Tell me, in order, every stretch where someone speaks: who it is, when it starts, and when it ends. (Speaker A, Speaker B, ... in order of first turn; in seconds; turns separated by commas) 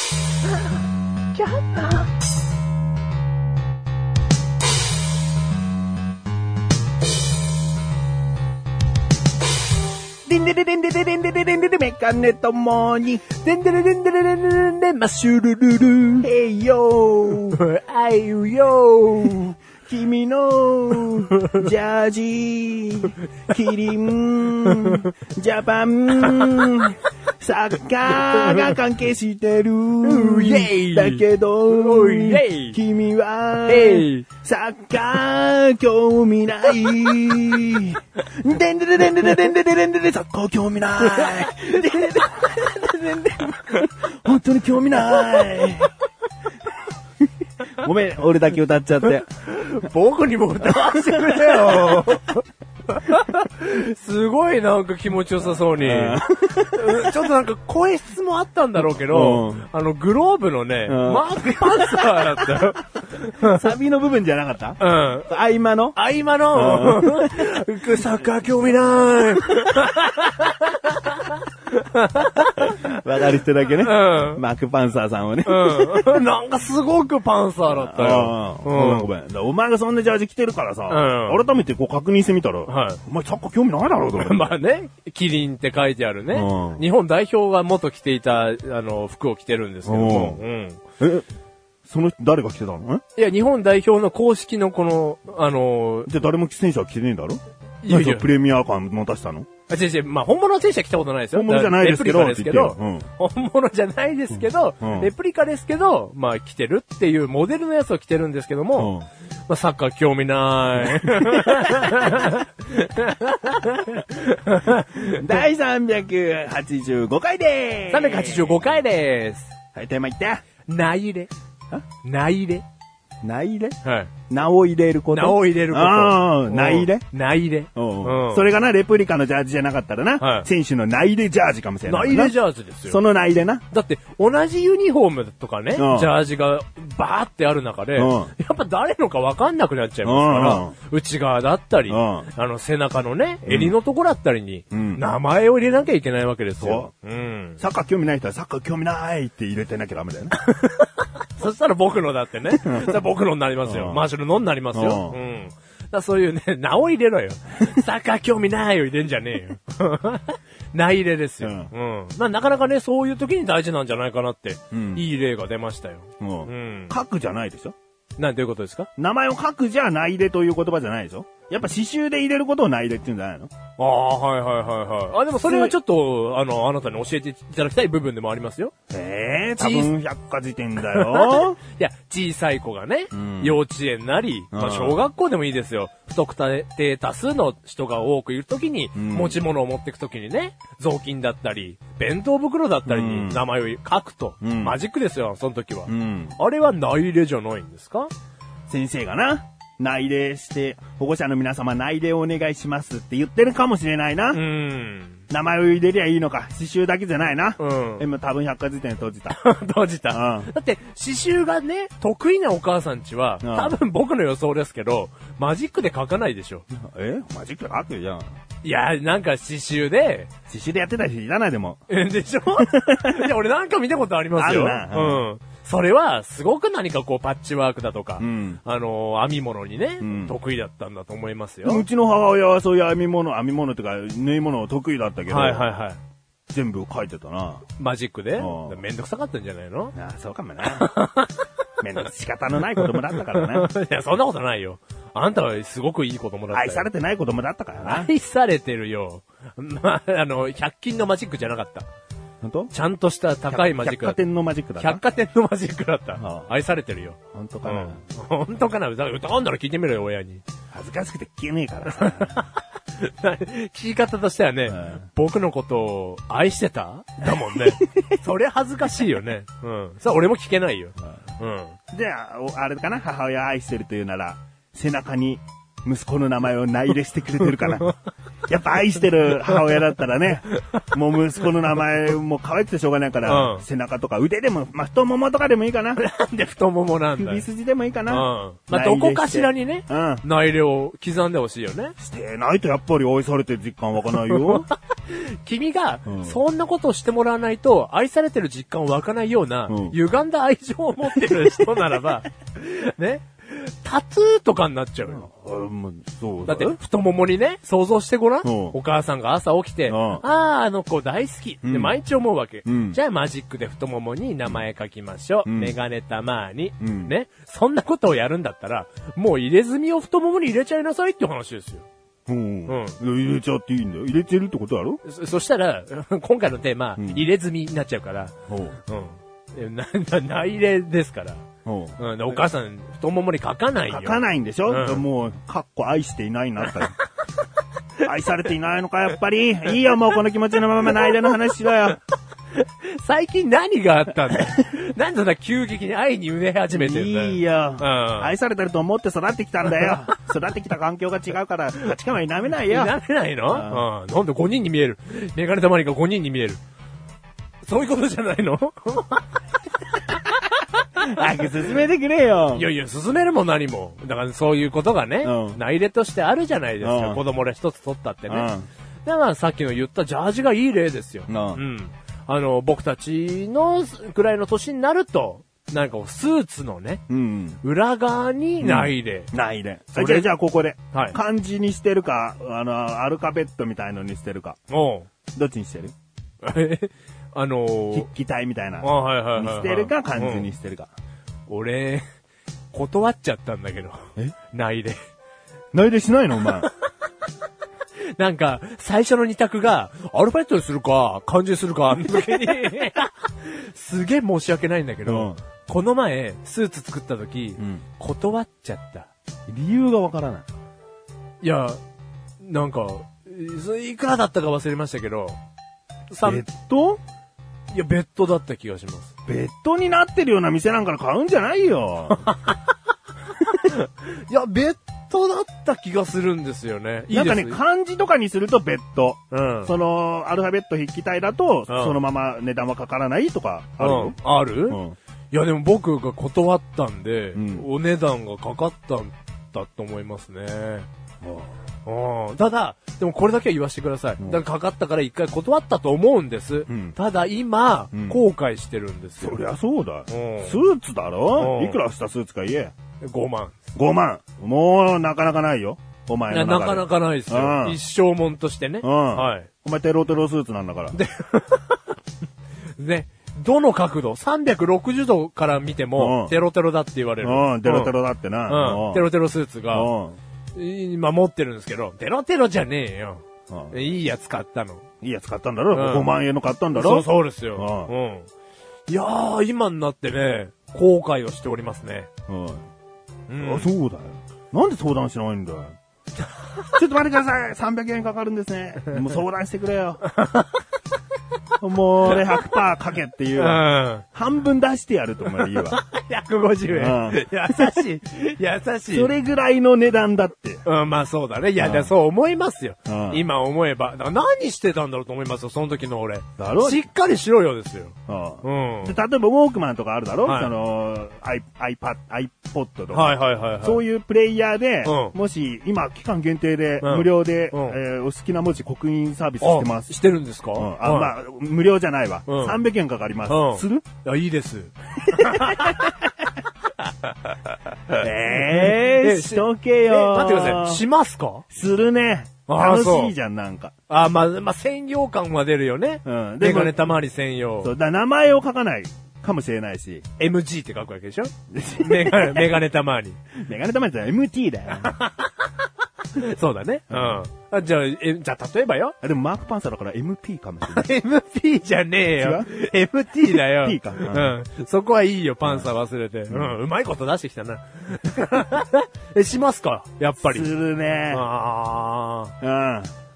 Speaker A: 1.3-2.1, Speaker B: 10.3-13.2, Speaker A: 13.3-16.3, Speaker B: 16.2-17.6, Speaker A: 17.4-19.5, Speaker B: 19.2-45.9, Speaker A: 24.7-25.0, Speaker A: 26.3-26.6, Speaker A: 28.1-28.8, Speaker A: 30.0-32.8, Speaker A: 33.6-34.2, Speaker A: 41.0-43.6, Speaker A: 45.0-45.6, Speaker B: 47.8-49.2, Speaker A: 49.0-63.7, Speaker B: 50.6-52.1, Speaker B: 55.6-57.2, Speaker B: 59.0-59.6, Speaker B: 60.9-62.7, Speaker B: 63.4-66.0, Speaker A: 64.8-65.3, Speaker A: 66.0-73.0, Speaker B: 66.5-67.5, Speaker B: 72.6-76.3, Speaker A: 73.8-74.4, Speaker A: 75.5-79.1, Speaker B: 77.7-84.5, Speaker A: 80.9-81.4, Speaker A: 82.7-83.0, Speaker A: 84.2-90.8, Speaker B: 86.3-86.8, Speaker B: 89.8-90.4, Speaker B: 91.0-91.2, Speaker B: 91.9-93.0, Speaker A: 93.2-96.1, Speaker B: 96.1-99.5, Speaker A: 97.8-98.3, Speaker A: 99.7-108.9, Speaker B: 101.3-103.1, Speaker B: 104.3-105.1, Speaker B: 108.8-109.1, Speaker A: 109.5-115.2, Speaker B: 110.8-111.8, Speaker B: 115.0-118.8, Speaker A: 117.9-119.5, Speaker B: 119.8-120.4, Speaker A: 120.7-121.3, Speaker A: 122.0-122.7, Speaker B: 123.2-123.8, Speaker A: 123.8-124.1, Speaker B: 124.3-127.0, Speaker A: 125.1-128.5, Speaker B: 127.8-133.7, Speaker A: 130.2-130.5, Speaker A: 131.9-133.0, Speaker A: 133.7-147.6, Speaker B: 135.8-136.1, Speaker B: 137.9-138.3, Speaker B: 140.0-140.7, Speaker B: 141.9-142.3, Speaker B: 143.5-143.7, Speaker B: 144.7-145.0, Speaker B: 146.6-146.9, Speaker B: 147.6-150.3, Speaker A: 150.4-166.9, Speaker B: 152.5-153.0, Speaker B: 153.7-154.0, Speaker B: 154.7-155.2, Speaker B: 161.4-161.7, Speaker B: 164.7-165.1, Speaker B: 166.2-167.8, Speaker A: 168.2-168.9, Speaker B: 169.0-173.5, Speaker A: 173.8-178.7, Speaker B: 175.4-175.8, Speaker B: 178.9-181.6, Speaker A: 179.6-179.9, Speaker A: 180.8-198.1, Speaker B: 183.1-183.6, Speaker B: 184.5-185.1, Speaker B: 188.9-189.4, Speaker B: 192.9-193.4, Speaker B: 194.4-194.8, Speaker B: 195.9-196.4, Speaker B: 198.7-204.4, Speaker A: 204.3-205.2, Speaker B: 205.3-209.4, Speaker A: 207.6-208.1, Speaker A: 209.3-216.7, Speaker B: 210.1-210.5, Speaker B: 213.4-213.8, Speaker B: 216.7-218.3, Speaker A: 218.6-220.3, Speaker B: 220.5-221.8, Speaker A: 221.9-231.8, Speaker B: 222.6-223.3, Speaker B: 224.4-225.2, Speaker B: 228.2-228.6, Speaker B: 230.0-230.4, Speaker B: 231.6-235.7, Speaker A: 235.3-236.0, Speaker B: 236.5-237.7, Speaker A: 237.8-239.9, Speaker B: 238.4-238.8, Speaker B: 239.9-240.9, Speaker A: 240.6-241.5, Speaker B: 241.8-243.7, Speaker A: 242.8-246.9, Speaker B: 246.5-248.1, Speaker A: 247.8-251.9, Speaker B: 252.4-252.7, Speaker A: 252.7-254.2, Speaker B: 253.5-255.0, Speaker A: 254.8-260.4, Speaker B: 256.2-256.5, Speaker B: 257.3-258.0, Speaker B: 260.7-262.4, Speaker A: 261.9-271.8, Speaker B: 264.7-265.1, Speaker B: 267.2-268.0, Speaker B: 271.9-277.9, Speaker B: 278.5-286.0, Speaker A: 283.2-283.6, Speaker A: 285.9-287.4, Speaker B: 287.1-290.2, Speaker A: 288.1-291.9, Speaker B: 292.0-294.7, Speaker A: 294.3-305.3, Speaker B: 296.1-296.4, Speaker B: 299.7-300.0, Speaker B: 305.1-306.8, Speaker A: 306.4-321.9, Speaker B: 308.4-308.8, Speaker B: 309.9-310.2, Speaker B: 311.6-311.9, Speaker B: 312.6-313.0, Speaker B: 315.4-315.8, Speaker B: 316.8-317.1, Speaker B: 322.3-325.0, Speaker A: 322.7-323.0, Speaker A: 325.0-328.3, Speaker B: 327.0-327.2, Speaker B: 328.5-328.8, Speaker A: 328.9-331.4, Speaker B: 331.6-331.9, Speaker A: 332.0-335.1, Speaker B: 333.9-336.9, Speaker B: 338.0-342.0, Speaker A: 340.9-341.2, Speaker A: 342.5-348.3, Speaker B: 346.7-352.9, Speaker A: 349.8-350.1, Speaker A: 352.7-356.6, Speaker B: 353.5-353.9, Speaker A: 357.6-359.2, Speaker A: 359.9-360.4, Speaker B: 361.0-362.7, Speaker A: 362.5-368.5, Speaker B: 365.2-365.6, Speaker B: 366.8-367.2, Speaker B: 368.3-368.7, Speaker A: 369.1-377.0, Speaker B: 371.3-371.6, Speaker B: 377.1-377.6, Speaker A: 377.6-379.3, Speaker B: 378.6-384.6, Speaker A: 379.9-380.3, Speaker A: 380.9-381.2, Speaker A: 384.7-385.1, Speaker B: 385.3-385.9, Speaker A: 386.4-388.1, Speaker B: 387.9-390.9, Speaker A: 388.8-390.5, Speaker A: 391.5-392.0, Speaker A: 392.7-394.0, Speaker A: 394.5-395.0, Speaker B: 395.7-396.7, Speaker A: 398.2-409.1, Speaker B: 405.1-405.4, Speaker B: 407.6-407.8, Speaker B: 409.5-410.5, Speaker A: 411.4-411.8, Speaker A: 412.4-415.4, Speaker A: 416.1-416.4, Speaker B: 416.2-417.0, Speaker A: 417.7-419.1, Speaker B: 419.3-422.3, Speaker A: 422.3-422.6, Speaker A: 423.6-427.6, Speaker B: 427.1-435.0, Speaker A: 429.3-429.7, Speaker A: 431.7-432.0, Speaker A: 433.8-434.8, Speaker A: 435.3-440.9, Speaker B: 437.4-437.7, Speaker B: 441.2-441.5, Speaker A: 441.9-449.4, Speaker B: 446.7-447.0, Speaker B: 447.9-448.2, Speaker B: 449.2-452.7, Speaker A: 450.1-450.6, Speaker A: 451.4-451.8, Speaker A: 453.0-453.6, Speaker B: 453.8-457.8, Speaker A: 456.3-459.5, Speaker B: 458.8-461.0, Speaker A: 460.9-461.9, Speaker A: 462.8-467.9, Speaker B: 466.0-466.4, Speaker B: 467.2-469.1, Speaker A: 468.5-469.9, Speaker B: 469.7-470.2, Speaker A: 470.6-474.9, Speaker B: 473.5-473.9, Speaker B: 475.0-477.9, Speaker A: 475.7-476.1, Speaker A: 476.7-478.3, Speaker A: 478.9-482.1, Speaker B: 482.3-482.7, Speaker A: 483.3-483.7, Speaker B: 483.4-485.8, Speaker B: 486.7-490.0, Speaker A: 490.1-490.6, Speaker B: 491.6-495.8, Speaker A: 492.1-492.6, Speaker A: 493.4-494.1, Speaker A: 495.4-499.1, Speaker B: 496.7-497.8, Speaker B: 498.9-500.6, Speaker A: 500.6-509.0, Speaker B: 501.6-501.9, Speaker B: 502.9-503.2, Speaker B: 506.4-506.8, Speaker B: 508.1-520.0, Speaker A: 510.2-510.5, Speaker A: 512.9-513.8, Speaker A: 514.9-515.1, Speaker A: 516.8-517.8, Speaker A: 519.4-521.1, Speaker B: 520.5-523.9, Speaker A: 522.3-522.6, Speaker A: 523.3-525.9, Speaker B: 525.1-525.9, Speaker A: 527.9-531.4, Speaker B: 527.9-530.8, Speaker B: 531.5-533.7, Speaker A: 532.5-533.1, Speaker A: 533.9-537.7, Speaker B: 536.0-536.9, Speaker B: 537.6-540.0, Speaker A: 540.2-543.2, Speaker B: 541.5-542.6, Speaker B: 543.4-545.0, Speaker A: 544.8-545.5, Speaker A: 546.1-549.0, Speaker B: 546.9-547.2, Speaker B: 549.0-550.9, Speaker A: 550.7-560.5, Speaker B: 552.2-552.5, Speaker B: 553.2-554.4, Speaker B: 556.3-556.5, Speaker B: 560.2-561.2, Speaker A: 561.1-562.3, Speaker B: 562.4-562.9